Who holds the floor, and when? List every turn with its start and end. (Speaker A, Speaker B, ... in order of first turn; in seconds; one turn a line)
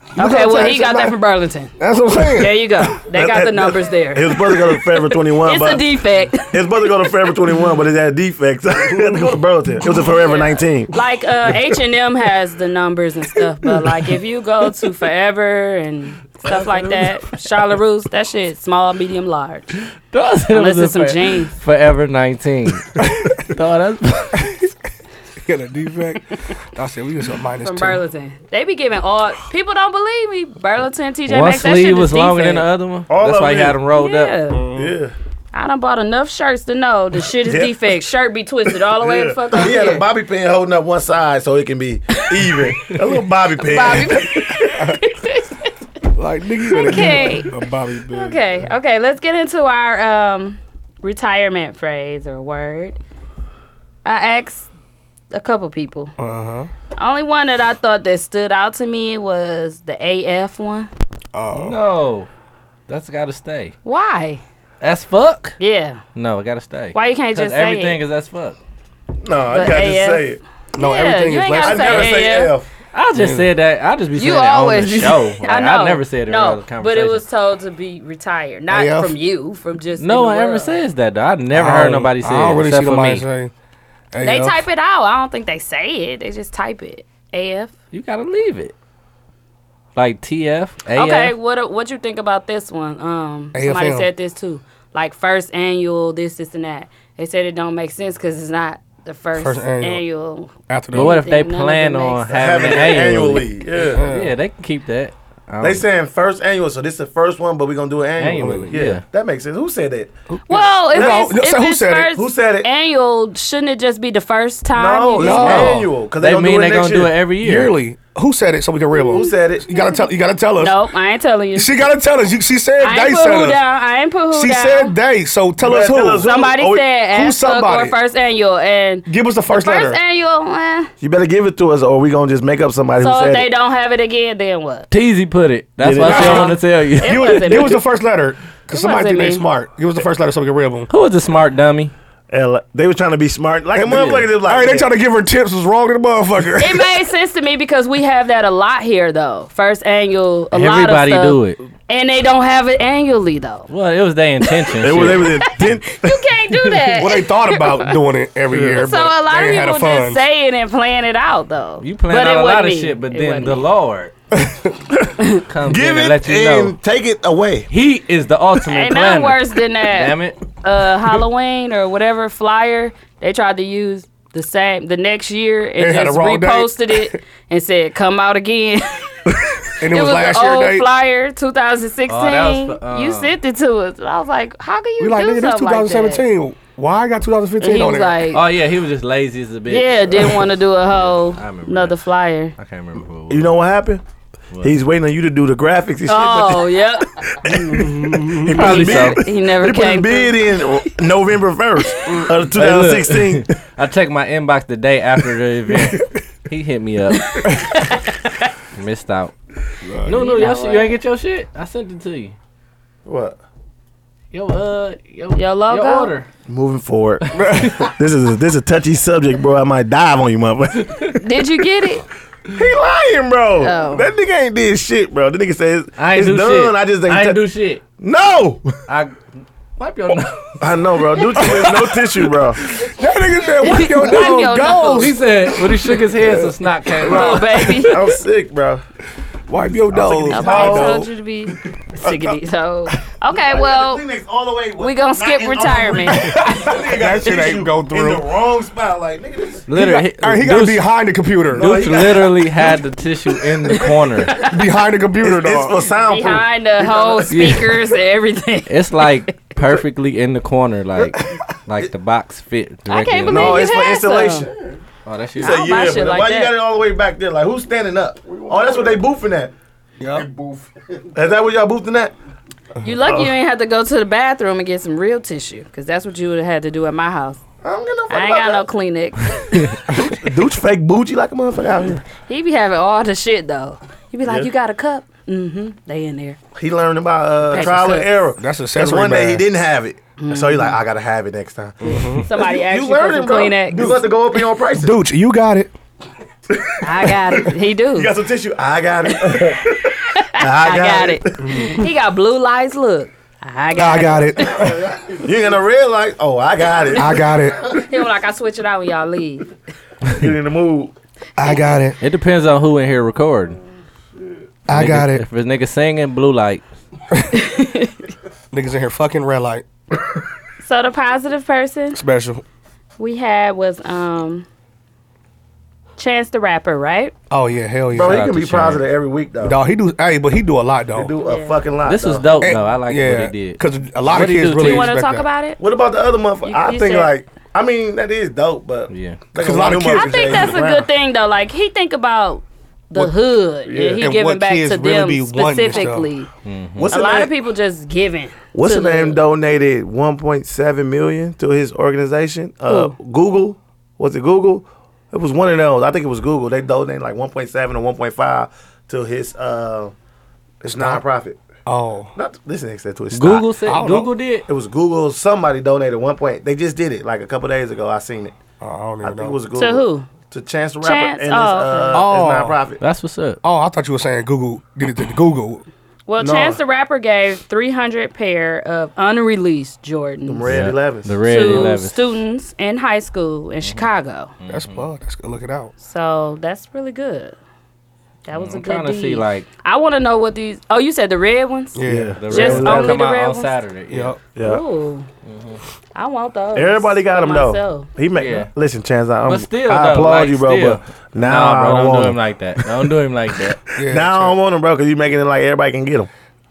Speaker A: 0.2-1.2
Speaker B: 0.2-1.7
Speaker A: 1.8-2.6
Speaker B: 2.4-6.6
Speaker C: 3.0-5.8
Speaker C: 6.5-10.9
Speaker A: 8.9-9.3
Speaker B: 10.1-19.8
Speaker D: 20.1-24.6
Speaker B: 20.5-21.5
Speaker A: 23.0-23.4
Speaker A: 25.4-28.0
Speaker B: 27.6-32.6
Speaker D: 31.3-34.4
Speaker C: 33.1-33.8
Speaker B: 34.0-34.6
Speaker A: 34.5-34.9
Speaker C: 34.7-35.1
Speaker B: 35.5-40.0
Speaker C: 37.4-37.9
Speaker C: 38.7-44.8
Speaker B: 43.6-45.7
Speaker A: 46.1-48.6
Speaker B: 46.7-47.5
Speaker B: 48.1-53.0
Speaker B: 54.0-54.7
Speaker B: 55.3-56.1
Speaker A: 56.2-56.7
Speaker B: 57.0-60.9
Speaker A: 61.3-61.8
Speaker D: 61.5-62.3
Speaker D: 62.9-63.8
Speaker B: 63.9-64.4
Speaker D: 64.8-65.6
Speaker B: 65.6-66.0
Speaker D: 66.2-68.6
Speaker B: 66.9-68.0
Speaker C: 69.2-70.4
Speaker B: 69.5-70.3
Speaker A: 70.8-72.3
Speaker B: 70.8-72.5
Speaker C: 71.6-72.7
Speaker D: 72.9-77.2
Speaker A: 73.2-73.5
Speaker B: 74.2-80.8
Speaker A: 78.7-79.2
Speaker D: 80.0-83.3
Speaker A: 81.5-83.5
Speaker A: 84.1-84.6
Speaker B: 84.2-87.7
Speaker D: 87.9-88.7
Speaker D: 90.0-91.3
Speaker B: 91.0-102.7
Speaker A: 93.5-94.1
Speaker A: 99.4-100.0
Speaker A: 100.7-101.2
Speaker D: 100.9-105.8
Speaker C: 102.3-104.0
Speaker A: 103.9-104.3
Speaker C: 105.6-110.1
Speaker D: 108.2-109.0
Speaker A: 108.4-108.7
Speaker A: 110.3-112.1
Speaker B: 110.5-115.8
Speaker C: 110.9-111.3
Speaker C: 112.1-112.7
Speaker C: 114.8-117.2
Speaker A: 115.2-115.9
Speaker D: 116.2-117.8
Speaker A: 117.4-120.8
Speaker B: 119.0-120.0
Speaker C: 119.1-119.7
Speaker B: 120.6-121.7
Speaker A: 121.5-123.6
Speaker B: 122.8-125.0
Speaker A: 124.3-126.3
Speaker C: 125.6-126.9
Speaker B: 126.2-130.9
Speaker A: 127.1-128.0
Speaker A: 129.1-130.0
Speaker C: 131.0-133.5
Speaker B: 133.0-134.9
Speaker D: 134.9-137.7
Speaker C: 135.8-136.6
Speaker B: 136.1-137.8
Speaker A: 136.1-136.5
Speaker A: 137.0-140.9
Speaker B: 138.7-139.4
Speaker D: 140.9-141.9
Speaker C: 142.3-144.9
Speaker A: 143.8-146.9
Speaker D: 143.9-144.2
Speaker B: 146.6-153.7
Speaker D: 150.5-151.6
Speaker D: 153.7-155.4
Speaker C: 154.8-156.2
Speaker B: 155.3-158.0
Speaker A: 156.9-160.2
Speaker C: 158.5-158.8
Speaker B: 158.7-163.7
Speaker D: 161.8-164.1
Speaker A: 164.3-164.8
Speaker D: 165.5-166.8
Speaker C: 165.6-167.7
Speaker D: 167.7-170.4
Speaker B: 168.7-179.2
Speaker A: 175.8-177.1
Speaker A: 179.8-180.9
Speaker B: 179.9-186.2
Speaker D: 182.1-183.4
Speaker A: 185.0-188.2
Speaker B: 187.6-188.4
Speaker D: 188.3-192.0
Speaker B: 189.7-192.5
Speaker D: 192.6-193.5
Speaker C: 193.3-194.0
Speaker C: 194.6-203.5
Speaker B: 196.1-197.1
Speaker A: 197.5-198.5
Speaker D: 198.5-199.2
Speaker B: 198.5-200.7
Speaker D: 202.6-207.5
Speaker B: 207.3-208.5
Speaker D: 208.8-209.3
Speaker A: 209.8-210.2
Speaker D: 210.1-212.4
Speaker B: 210.1-210.9
Speaker C: 213.1-213.4
Speaker D: 214.3-216.3
Speaker B: 215.3-216.1
Speaker C: 216.5-221.1
Speaker A: 217.3-217.9
Speaker D: 217.5-217.9
Speaker B: 221.2-222.0
Speaker C: 222.5-227.4
Speaker B: 223.6-224.1
Speaker D: 226.0-227.8
Speaker C: 228.0-228.7
Speaker D: 228.9-229.2
Speaker D: 229.8-230.6
Speaker C: 230.6-232.6
Speaker A: 231.4-232.0
Speaker A: 232.7-235.2
Speaker B: 233.6-235.1
Speaker D: 235.0-238.0
Speaker C: 237.1-238.8
Speaker A: 237.1-237.7
Speaker B: 237.1-238.0
Speaker A: 239.5-241.1
Speaker C: 239.9-241.0
Speaker B: 240.3-244.0
Speaker C: 243.3-249.7
Speaker B: 244.8-246.3
Speaker A: 246.2-248.2
Speaker D: 249.7-250.9
Speaker A: 249.7-251.7
Speaker C: 251.5-252.5
Speaker D: 251.5-254.4
Speaker B: 253.8-254.5
Speaker A: 254.4-255.8
Speaker C: 255.2-257.6
Speaker B: 256.1-258.7
Speaker D: 257.3-257.7
Speaker D: 258.7-263.6
Speaker B: 262.9-264.5
Speaker C: 263.3-264.5
Speaker D: 265.1-265.9
Speaker C: 265.4-269.5
Speaker B: 265.4-266.6
Speaker A: 268.4-268.8
Speaker A: 270.0-270.3
Speaker C: 270.2-272.1
Speaker B: 272.8-277.4
Speaker C: 277.6-278.6
Speaker B: 278.1-279.6
Speaker C: 279.9-282.0
Speaker B: 282.3-286.4
Speaker C: 284.2-284.5
Speaker C: 286.6-295.0
Speaker B: 287.5-288.1
Speaker A: 288.4-289.4
Speaker B: 290.2-290.8
Speaker A: 291.8-292.2
Speaker B: 292.2-293.9
Speaker A: 294.8-295.7
Speaker C: 296.5-301.7
Speaker B: 296.8-298.1
Speaker B: 300.1-304.9
Speaker A: 301.4-301.8
Speaker A: 303.7-304.9
Speaker C: 305.1-307.3
Speaker A: 307.0-307.8
Speaker B: 307.6-309.5
Speaker C: 310.1-310.9
Speaker A: 311.4-312.0
Speaker D: 312.0-313.6
Speaker A: 314.7-315.2
Speaker D: 314.7-316.6
Speaker B: 317.4-317.9
Speaker A: 318.5-319.6
Speaker B: 320.6-322.0
Speaker A: 321.9-322.4
Speaker B: 323.0-324.5
Speaker B: 326.0-327.1
Speaker A: 327.3-328.2
Speaker C: 327.9-329.6
Speaker D: 327.9-328.9
Speaker A: 329.4-331.1
Speaker C: 330.9-332.3
Speaker B: 331.2-331.6
Speaker D: 331.9-334.9
Speaker A: 332.4-335.3
Speaker B: 334.6-335.6
Speaker C: 335.6-340.9
Speaker B: 336.4-337.1
Speaker D: 338.9-339.2
Speaker A: 339.4-340.5
Speaker B: 339.9-346.3
Speaker C: 343.6-344.0
Speaker A: 344.0-346.1
Speaker D: 346.4-346.9
Speaker C: 346.8-347.3
Speaker B: 346.9-349.2
Speaker C: 348.5-359.9
Speaker B: 352.7-352.9
Speaker C: 360.6-361.4
Speaker A: 360.7-361.0
Speaker A: 361.7-362.1
Speaker C: 362.1-363.5
Speaker D: 363.1-364.5
Speaker A: 363.7-364.1
Speaker C: 364.5-368.4
Speaker A: 368.6-369.4
Speaker C: 369.0-372.8
Speaker B: 369.6-370.1
Speaker B: 370.8-372.0
Speaker A: 371.9-372.6
Speaker D: 372.8-373.4
Speaker A: 373.4-375.6
Speaker B: 376.1-380.5
Speaker C: 376.2-376.6
Speaker C: 380.3-381.7
Speaker D: 380.5-382.1
Speaker B: 381.2-384.3
Speaker D: 383.6-383.9
Speaker D: 384.4-384.9
Speaker A: 384.5-385.7
Speaker B: 385.8-387.4
Speaker B: 388.3-393.5
Speaker D: 388.3-389.5
Speaker A: 391.8-392.8
Speaker C: 391.9-392.9
Speaker D: 392.2-394.2
Speaker A: 393.9-394.2
Speaker C: 394.4-394.6
Speaker B: 394.4-395.1
Speaker D: 395.2-395.6
Speaker B: 395.9-397.9
Speaker C: 396.6-402.8
Speaker D: 398.2-398.5
Speaker D: 399.3-403.6
Speaker A: 403.8-404.3
Speaker C: 403.8-406.1